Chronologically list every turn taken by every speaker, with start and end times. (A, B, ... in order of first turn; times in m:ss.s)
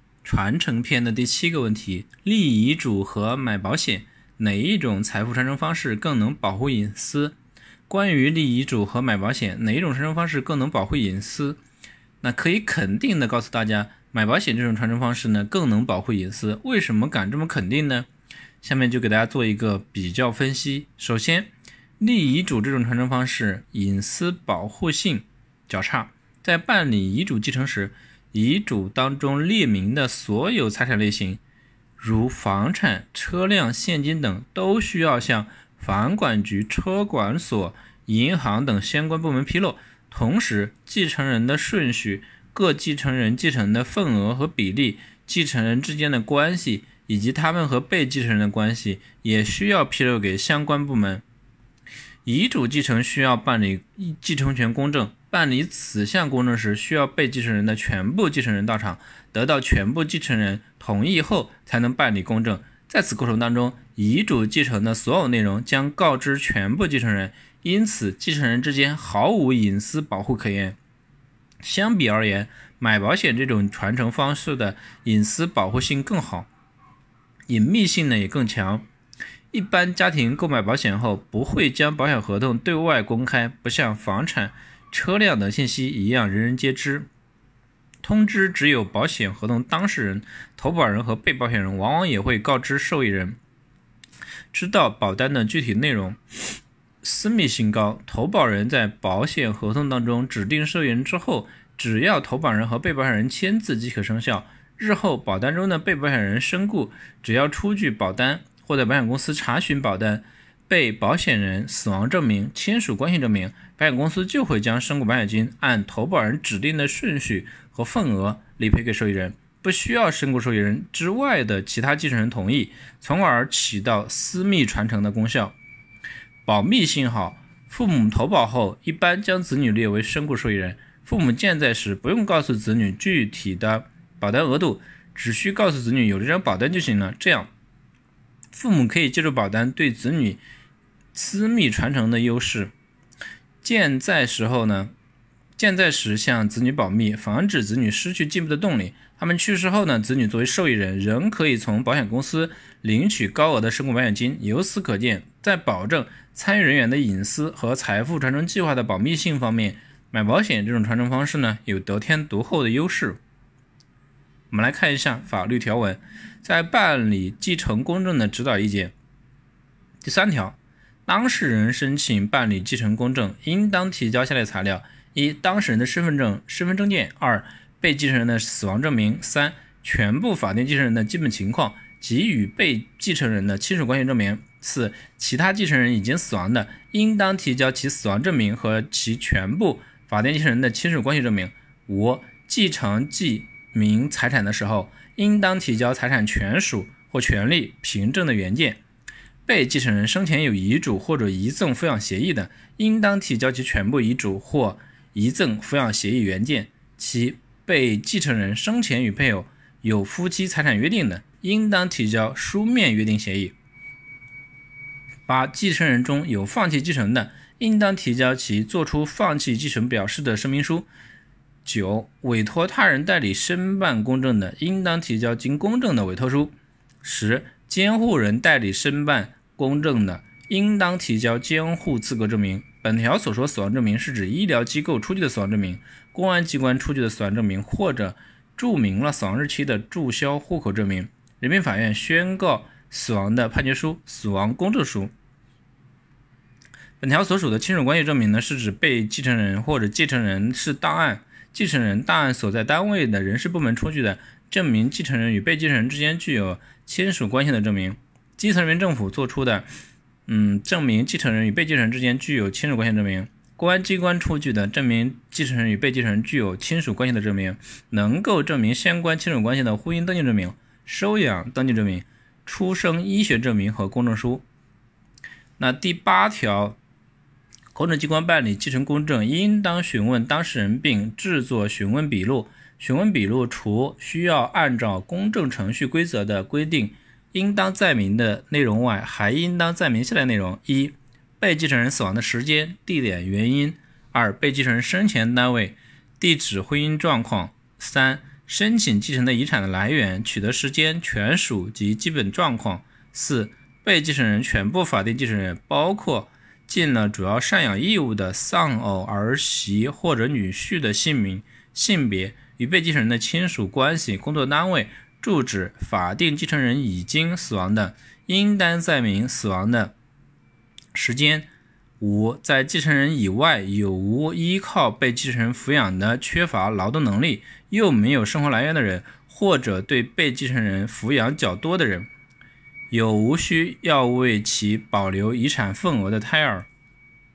0:00.2-0:07.4 A
0:07.9-0:11.6 A
0:12.2-0:18.1 A
0:18.6-0:31.4 A
0:32.0-0:51.2 A
0:52.2-1:10.8 A
1:11.6-1:16.5 A
1:17.5-1:18.8 A
1:19.5-1:27.1 A
1:28.0-1:33.4 A
1:34.5-1:36.2 A
1:37.0-2:05.5 A
2:06.4-2:17.5 A
2:18.5-2:20.4 A
2:21.1-2:22.7 A
2:23.6-2:24.9 A
2:25.6-2:43.2 A
2:44.5-2:48.9 A
2:50.0-3:18.8 A
3:19.5-3:33.5 A
3:35.3-3:40.9 A
3:41.6-4:05.1 A
4:07.0-4:19.7 A
4:20.3-4:34.4 A
4:35.6-4:36.8 A
4:37.7-5:19.9 A
5:20.9-5:21.5 A
5:22.0-5:32.1 A
5:32.9-5:36.7 A